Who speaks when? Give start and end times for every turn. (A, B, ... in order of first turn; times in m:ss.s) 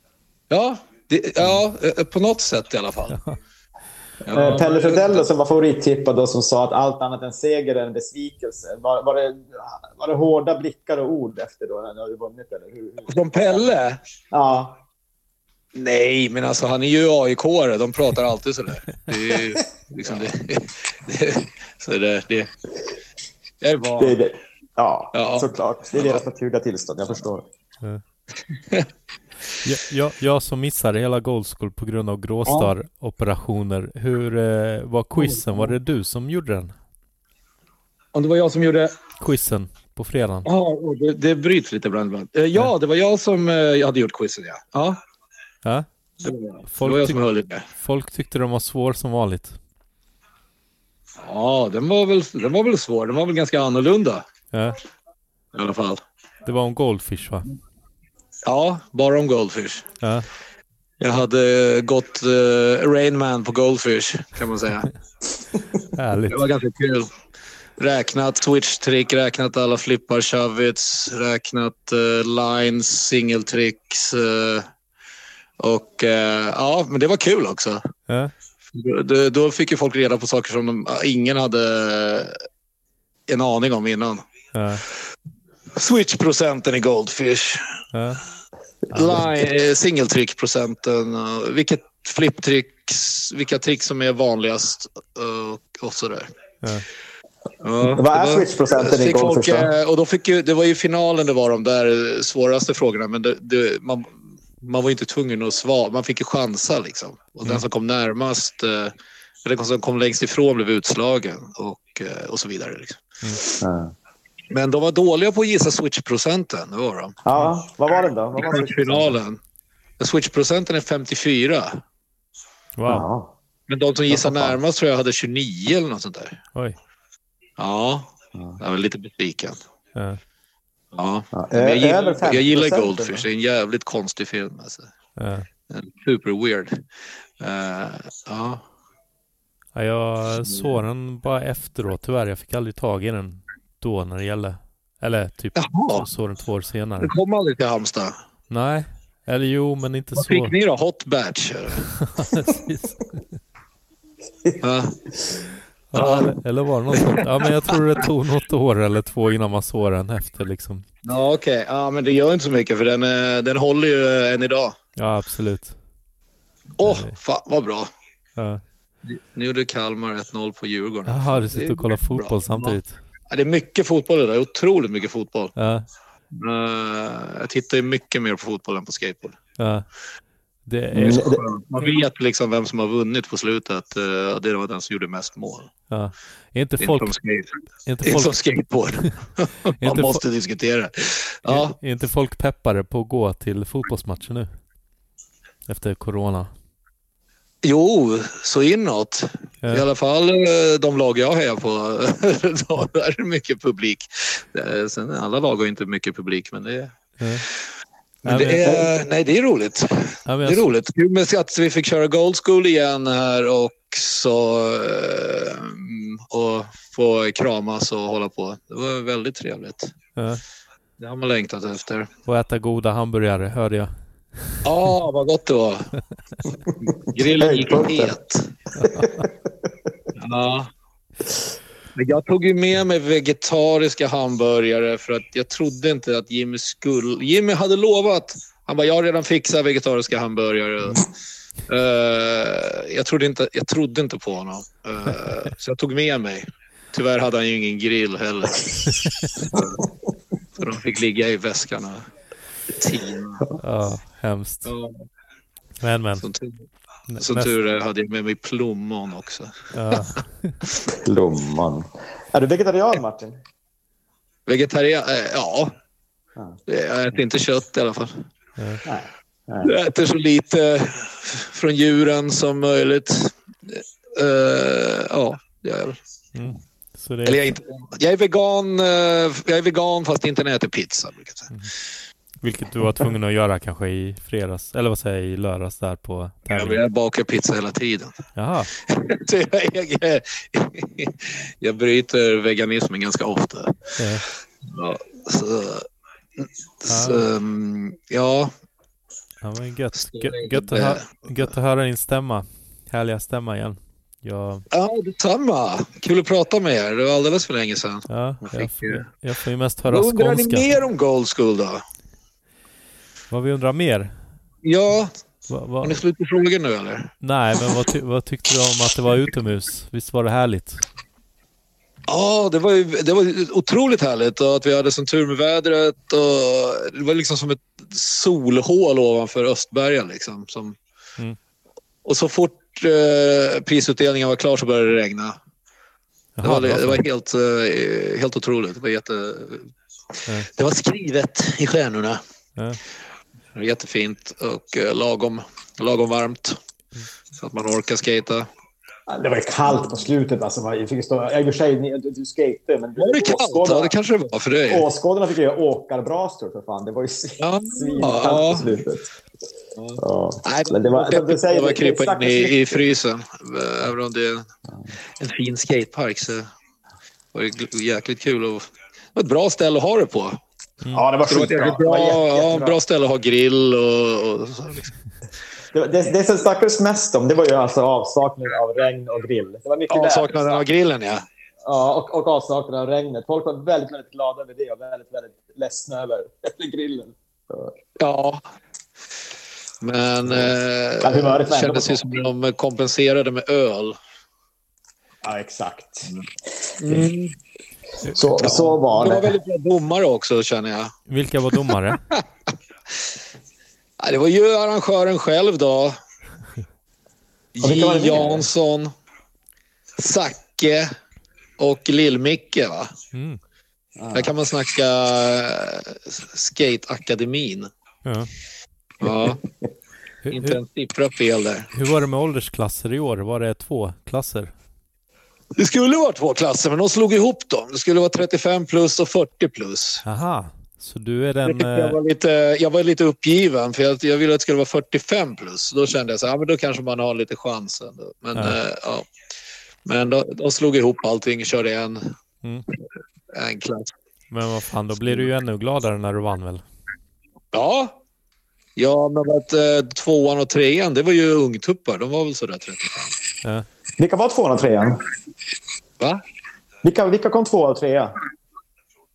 0:00.5-0:03.2 A
0:03.1-0:03.4 B
0:04.2-0:05.3 A
0:04.3-0:13.7 C
0:13.0-0:14.0 A
0:14.3-0:14.8 C
0:15.7-0:22.5 A
0:23.6-0:24.2 A
0:24.0-0:27.5 C
0:25.1-0:26.2 A
0:29.6-0:36.7 B
0:32.4-0:32.7 A
0:35.1-0:35.7 A
0:38.1-0:38.9 A
0:39.2-0:40.5 B
0:40.4-0:45.0 A
0:46.2-0:47.6 A
0:46.7-0:49.6 B
0:51.2-0:54.2 A
0:55.5-0:56.0 A
0:56.4-0:57.5 B
0:58.4-0:59.9 A
1:00.0-1:00.2 B
1:01.0-1:04.9 A
1:05.9-1:06.4 B
1:06.3-1:07.1 A
1:07.8-1:14.7 A
1:15.6-1:17.8 A
1:18.7-1:22.3 A
1:23.3-1:24.2 A
1:24.5-1:24.8 B
1:25.8-1:27.6 A
1:27.9-1:28.2 B
1:28.9-1:29.2 B
1:28.9-1:36.3 A
1:37.6-1:48.9 A
1:37.8-1:39.7 C
1:49.4-1:53.6 A
1:53.6-1:53.9 C
1:54.5-1:57.2 A
1:57.2-1:59.2 C
1:58.3-1:59.4 A
2:00.0-2:01.8 A
2:02.8-2:03.1 B
2:02.9-2:03.3 C
2:03.7-2:06.4 A
2:04.1-2:04.6 C
2:07.6-2:09.6 A
2:08.3-2:08.6 C
2:10.9-2:14.9 A
2:11.3-2:13.3 C
2:15.2-2:15.5 B
2:15.7-2:16.8 A
2:17.4-2:18.6 A
2:19.7-2:27.1 B
2:20.4-2:20.8 A
2:25.5-2:26.1 A
2:27.0-2:28.2 A
2:28.5-2:30.5 B
2:30.1-2:31.8 A
2:31.9-2:33.2 B
2:34.6-2:34.9 A
2:35.9-2:40.8 B
2:35.9-2:36.4 A
2:36.9-2:37.8 A
2:41.0-2:44.8 A
2:45.0-2:45.7 B
2:46.8-2:47.9 A
2:46.8-2:47.2 B
2:49.0-2:52.8 A
2:51.1-2:53.0 B
2:53.3-2:55.5 A
2:55.6-2:55.8 B
2:56.4-2:59.4 A
2:59.6-2:59.8 B
3:00.6-3:01.3 B
3:01.0-3:01.4 C
3:01.0-3:05.7 A
3:05.9-3:07.1 B
3:06.8-3:07.5 A
3:07.8-3:08.4 B
3:08.0-3:11.8 A
3:09.8-3:10.2 B
3:11.5-3:14.5 B
3:15.7-3:16.5 B
3:17.6-3:26.9 A
3:27.2-3:27.4 B
3:28.2-3:28.8 B
3:28.2-3:39.9 A
3:28.6-3:28.8 C
3:30.2-3:30.7 B
3:40.2-3:40.4 B
3:41.0-3:42.1 A
3:42.2-3:43.9 B
3:44.6-3:45.9 A
3:46.9-3:48.5 A
3:47.1-3:48.2 C
3:48.8-3:49.2 B
3:48.8-3:49.7 C
3:50.2-3:50.7 A
3:52.0-4:01.0 A
4:01.7-4:09.8 A
4:08.9-4:09.4 B
4:10.6-4:12.0 A
4:12.7-4:13.4 A
4:13.6-4:14.7 B
4:14.6-4:14.9 A
4:15.8-4:16.2 B
4:16.2-4:16.6 A
4:17.1-4:17.6 B
4:17.2-4:20.0 A
4:19.7-4:20.6 B
4:20.9-4:23.4 C
4:24.5-4:25.7 A
4:26.7-4:28.2 A
4:28.8-4:29.7 C
4:29.6-4:36.0 A
4:36.3-4:37.5 B
4:37.2-4:41.5 A
4:42.4-4:46.8 B
4:46.5-4:48.1 A
4:48.3-4:48.7 B
4:48.9-4:53.8 A
4:54.0-4:54.2 B
4:54.7-4:55.8 A
4:56.4-4:58.5 A
4:56.9-4:57.3 B
4:59.4-5:04.6 B
4:59.9-5:01.5 A
5:04.7-5:09.1 A
5:08.1-5:10.8 B
5:09.8-5:11.8 A
5:13.3-5:14.2 B
5:14.6-5:15.1 A
5:15.5-5:16.0 B
5:15.8-5:17.1 A
5:17.2-5:20.8 B
5:22.1-5:30.8 A
5:32.0-5:35.4 A
5:36.4-5:37.0 B
5:36.4-5:39.7 A
5:40.4-5:42.2 A
5:43.5-5:46.6 A
5:47.4-5:48.5 A
5:49.1-5:53.9 C
5:53.0-5:54.8 A
5:54.7-5:59.0 C
5:57.4-5:58.8 A
5:59.8-6:04.4 A
6:00.0-6:02.9 C
6:05.2-6:06.5 A
6:07.3-6:10.4 A
6:10.8-6:11.1 B
6:10.9-6:12.8 C
6:11.2-6:14.9 A
6:15.7-6:20.7 C
6:19.9-6:21.2 A
6:21.6-6:27.8 C
6:28.0-6:28.4 A
6:29.8-6:34.0 A
6:30.2-6:32.0 C
6:35.2-6:36.1 C
6:36.8-6:37.3 A
6:38.1-6:39.4 C
6:38.4-6:40.9 A
6:41.1-6:42.0 B
6:44.0-6:46.0 A
6:47.6-6:48.9 A
6:47.6-6:48.5 C
6:50.0-6:50.9 A
6:51.6-6:52.9 A
6:53.1-6:53.4 B
6:54.0-6:54.3 C
6:54.1-6:57.7 A
6:59.0-6:59.4 A
6:59.1-6:59.4 C
7:00.2-7:00.6 B
7:00.3-7:01.7 A
7:01.7-7:04.5 B
7:05.6-7:10.0 A
7:10.0-7:12.0 B
7:11.4-7:19.1 A
7:19.8-7:22.1 A
7:23.3-7:23.9 A
7:24.3-7:26.6 B
7:27.5-7:28.0 A
7:28.8-7:33.1 A
7:34.0-7:35.0 C
7:36.8-7:38.1 C